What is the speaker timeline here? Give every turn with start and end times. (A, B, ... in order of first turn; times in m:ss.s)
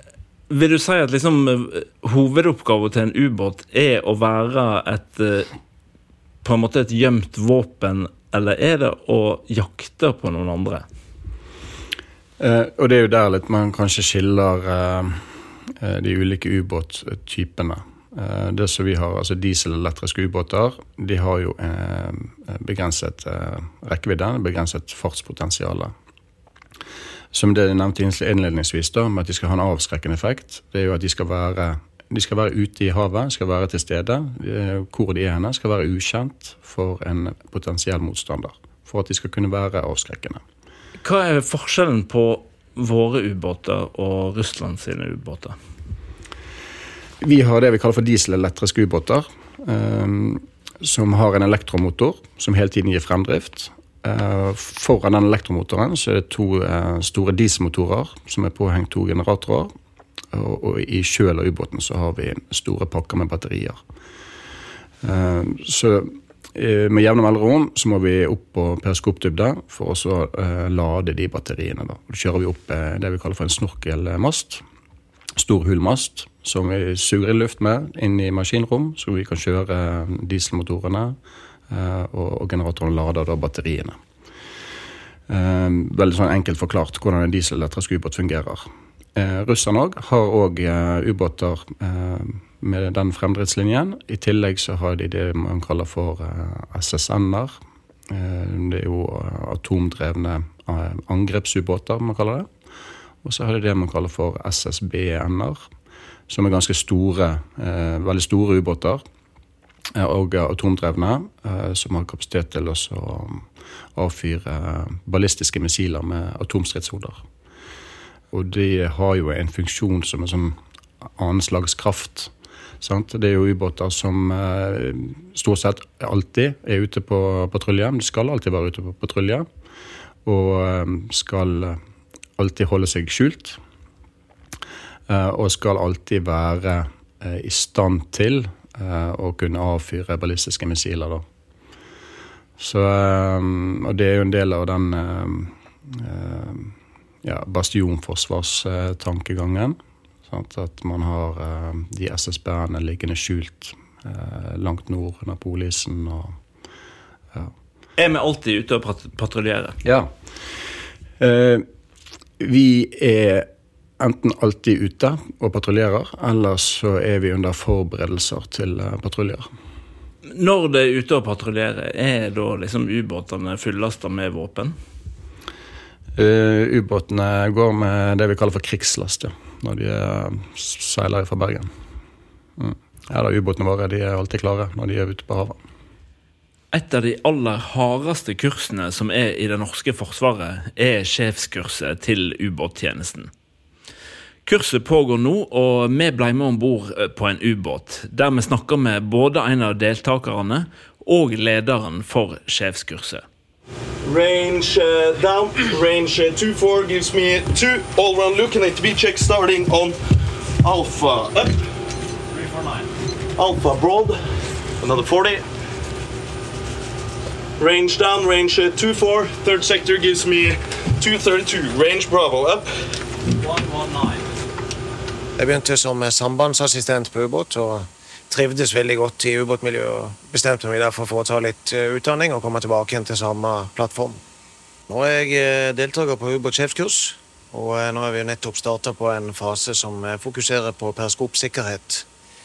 0:00.5-0:05.5 A
0:06.4-0:10.8 A
0:12.4-0:15.2 B
0:15.8-0:25.9 B
0:27.3-0:40.4 B
0:41.0-0:45.6 A
0:47.2-0:59.7 B
1:00.3-1:03.8 B
1:05.0-1:14.6 B
1:15.4-1:21.2 B
1:21.7-1:24.0 B
1:25.3-1:37.6 B
1:38.1-1:42.5 B
1:43.2-1:45.6 B
1:46.3-1:49.0 B
1:50.0-1:57.2 B
1:58.3-2:00.6 B
2:01.2-2:09.5 B
2:10.3-2:11.8 B
2:12.4-2:13.6 B
2:15.1-2:21.2 B
2:22.6-2:29.8 B
2:30.3-2:36.3 B
2:38.0-2:39.8 A
2:39.8-2:40.1 B
2:41.2-2:41.6 B
2:42.4-2:43.5 B
2:44.0-2:49.4 B
2:50.3-2:54.7 A
2:56.2-3:01.7 B
3:02.6-3:05.6 B
3:06.7-3:13.3 A
3:14.4-3:23.2 A
3:24.0-3:30.0 C
3:30.6-3:31.6 C
3:32.4-3:32.8 C
3:33.4-3:34.2 C
3:34.8-3:35.4 C
3:37.6-3:42.7 C
3:43.4-3:44.2 C
3:45.4-3:54.2 D
3:54.9-4:02.1 D